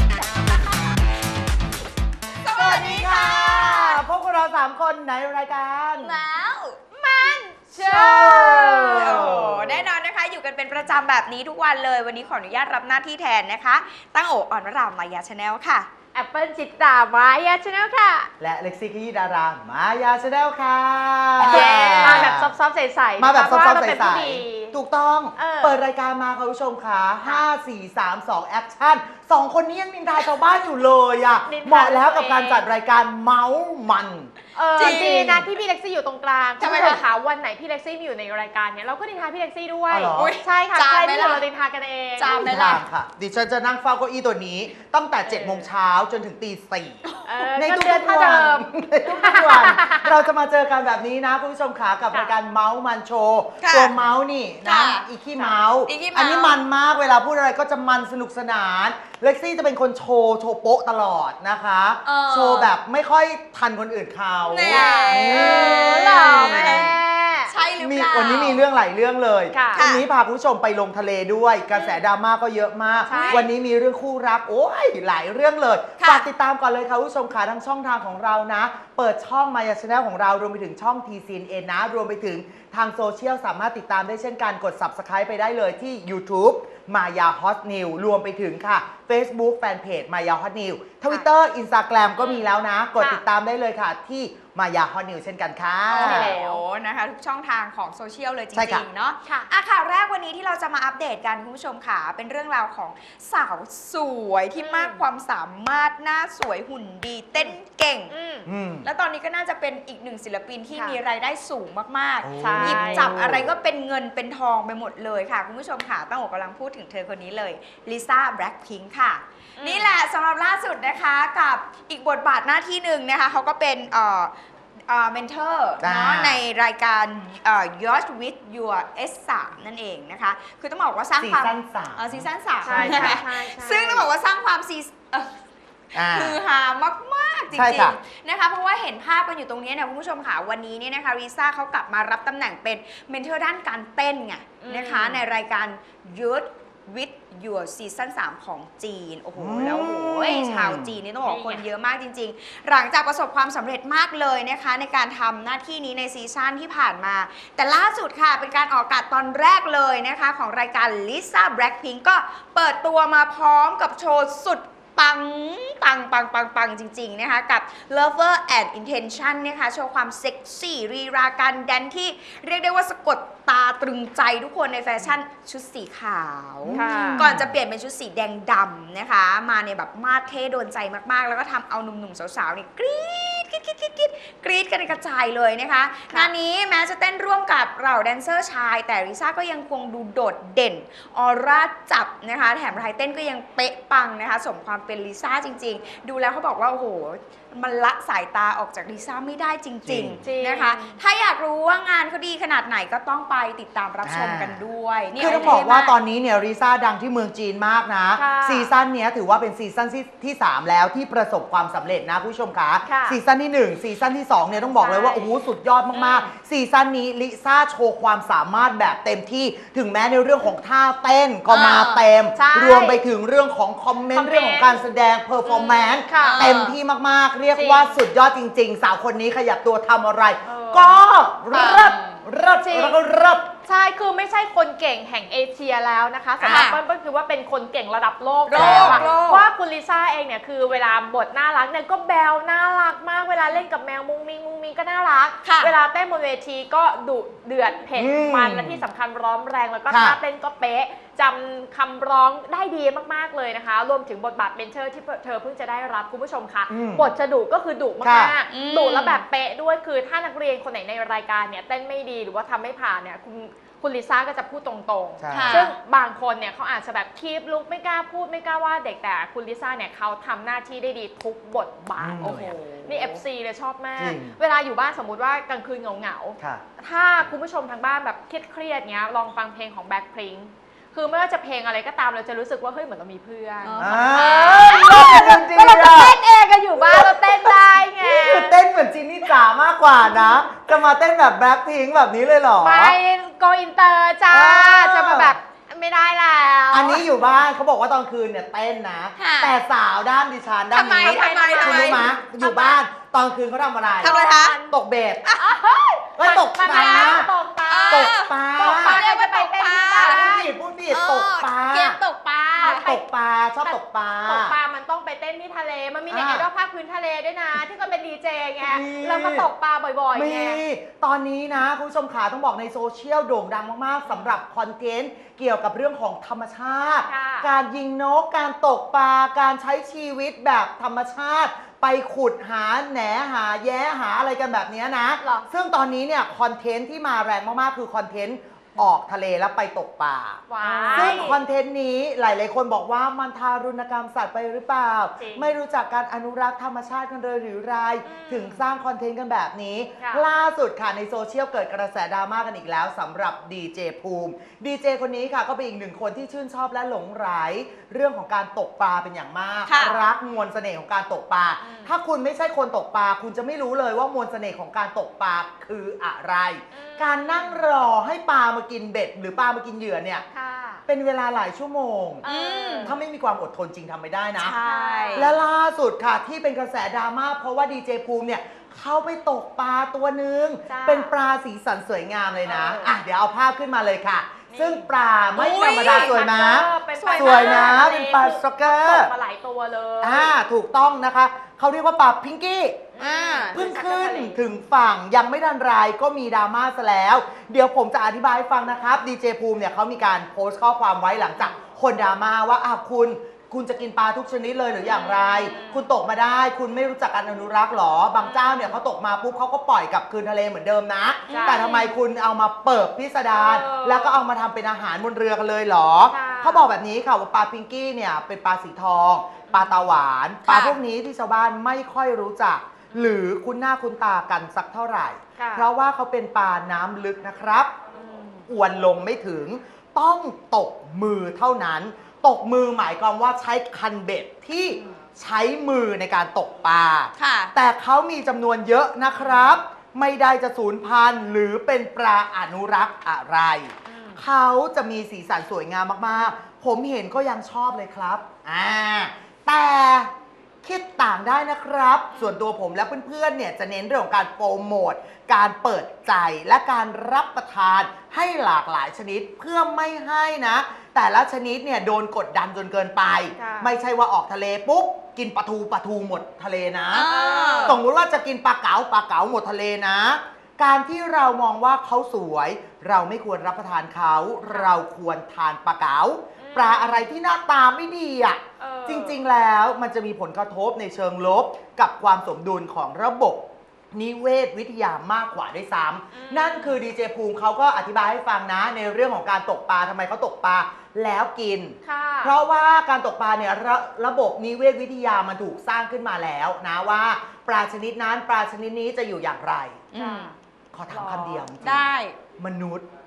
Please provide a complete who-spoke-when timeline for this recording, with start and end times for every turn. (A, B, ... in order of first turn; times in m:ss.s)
0:00.2-0:01.0 A
0:02.4-0:04.0 B
0:02.5-0:06.2 C
0:06.0-0:15.9 B
0:06.9-0:09.4 A
0:07.9-0:09.9 C
0:16.1-0:18.3 A
0:18.4-0:22.5 C
0:21.4-0:24.8 A
0:21.4-0:22.4 B
0:23.2-0:35.4 C
0:25.4-0:25.8 A
0:31.5-0:32.6 A
0:34.6-0:42.6 A
0:34.8-0:35.5 B
0:36.6-0:37.0 B
0:39.9-0:40.4 C
0:40.1-0:41.4 B
0:42.2-0:42.8 B
0:42.4-0:47.0 C
0:45.2-0:45.7 A
0:47.2-0:50.2 A
0:47.6-1:06.9 C
0:53.6-0:54.0 B
0:54.6-0:55.0 B
0:55.9-0:56.6 B
1:02.0-1:02.7 B
1:04.5-1:06.9 B
1:04.6-1:07.5 A
1:07.5-1:08.6 B
1:07.8-1:36.4 C
1:09.5-1:09.9 A
1:09.8-1:10.0 B
1:13.1-1:13.5 A
1:13.1-1:13.5 B
1:16.0-1:16.3 B
1:33.0-1:33.2 A
1:35.9-1:48.1 B
1:36.0-1:36.6 A
1:38.5-1:38.8 C
1:44.6-1:45.0 A
1:48.1-1:48.5 A
1:48.5-1:48.9 C
1:48.8-2:04.3 B
1:50.7-1:51.0 A
1:52.2-1:53.5 C
1:52.4-1:53.2 A
1:59.6-1:59.9 A
2:04.9-2:15.4 B
2:05.8-2:06.4 C
2:11.2-2:13.2 C
2:12.6-2:14.1 A
2:16.0-2:16.4 C
2:16.0-3:26.0 B
2:17.5-2:18.0 C
2:24.6-2:25.2 A
2:29.4-2:31.0 C
2:31.2-2:31.6 A
2:56.6-2:57.5 C
2:56.7-2:57.3 A
3:19.9-3:20.2 C
3:20.2-3:21.0 A
3:24.0-3:24.6 C
3:25.2-3:53.5 C
3:25.2-3:25.6 A
3:28.2-3:28.7 A
3:32.9-3:33.2 A
3:34.8-3:35.3 A
3:35.9-3:36.3 A
3:41.5-3:42.0 B
3:42.3-3:43.0 A
3:44.1-3:44.8 A
3:45.4-3:46.4 A
3:46.2-3:46.8 B
3:47.5-3:48.0 A
3:50.4-3:51.0 A
3:51.5-3:52.2 B
3:52.6-3:53.0 A
3:53.7-4:48.6 A
3:56.4-3:56.7 C
3:56.4-3:56.8 B
3:58.5-3:59.5 B
3:58.5-3:59.2 C
4:05.4-4:05.7 B
4:08.0-4:08.8 C
4:09.9-4:10.2 C
4:16.7-4:17.1 C
4:18.0-4:18.4 C
4:18.5-4:19.2 B
4:25.2-4:25.7 C
4:25.3-4:25.7 B
4:32.0-4:32.6 C
4:32.2-4:33.2 B
4:34.0-4:34.4 C
4:43.6-4:45.4 B
4:43.8-4:46.2 C
4:46.8-4:53.0 C
4:52.6-4:57.0 A
4:54.3-4:55.4 C
4:56.7-5:05.3 C
4:59.2-4:59.5 B
5:00.7-5:02.1 B
5:00.7-5:02.8 A
5:04.0-5:04.7 B
5:04.0-5:04.7 A
5:05.2-5:05.6 B
5:05.4-5:10.5 A
5:06.2-5:07.3 C
5:06.7-5:12.9 B
5:07.9-5:09.0 C
5:10.0-5:12.0 C
5:12.6-5:14.6 C
5:12.6-5:13.0 A
5:13.6-5:20.6 A
5:16.1-5:16.5 C
5:18.6-5:19.5 C
5:20.2-6:10.2 C
5:24.1-5:24.3 A
5:27.0-5:27.5 A
5:35.2-5:35.5 A
5:40.5-5:41.4 A
5:40.6-5:41.2 B
5:45.2-5:45.6 A
5:48.0-5:48.7 A
5:50.0-5:50.3 A
5:59.7-6:00.0 B
6:01.6-6:01.9 A
6:06.7-6:07.6 A
6:10.3-6:10.8 A
6:10.9-6:12.2 C
6:12.2-6:13.0 A
6:12.3-6:12.9 B
6:12.8-6:14.6 C
6:14.4-6:15.4 B
6:14.6-6:15.4 A
6:15.2-6:29.1 C
6:20.7-6:21.1 A
6:22.5-6:22.9 A
6:24.5-6:24.9 A
6:25.4-6:26.3 B
6:25.5-6:30.3 A
6:27.0-6:27.9 B
6:30.0-6:32.9 C
6:32.9-6:34.4 A
6:33.0-6:33.6 B
6:33.5-7:07.7 C
6:44.8-6:45.9 A
6:48.2-6:48.8 A
6:51.3-6:51.9 B
6:51.3-6:51.9 A
6:53.3-6:54.2 A
6:56.1-6:56.7 A
6:59.5-6:59.9 A
7:00.5-7:00.8 B
7:02.9-7:03.2 A
7:05.4-7:05.7 A
7:08.0-7:08.5 A
7:08.5-7:30.1 C
7:14.6-7:15.0 A
7:17.2-7:17.5 B
7:19.2-7:19.5 A
7:23.9-7:24.2 A
7:30.6-7:47.1 C
7:32.1-7:32.4 A
7:43.4-7:43.7 A
7:46.9-7:47.8 B
7:47.0-7:47.8 A
7:47.6-8:19.8 C
7:56.4-7:57.1 A
7:58.6-7:59.2 A
8:06.1-8:06.8 A
8:11.8-8:12.4 A
8:19.9-8:20.3 B
8:19.9-8:20.4 A
8:20.7-8:22.9 C
8:20.9-8:21.5 A
8:21.6-8:22.2 B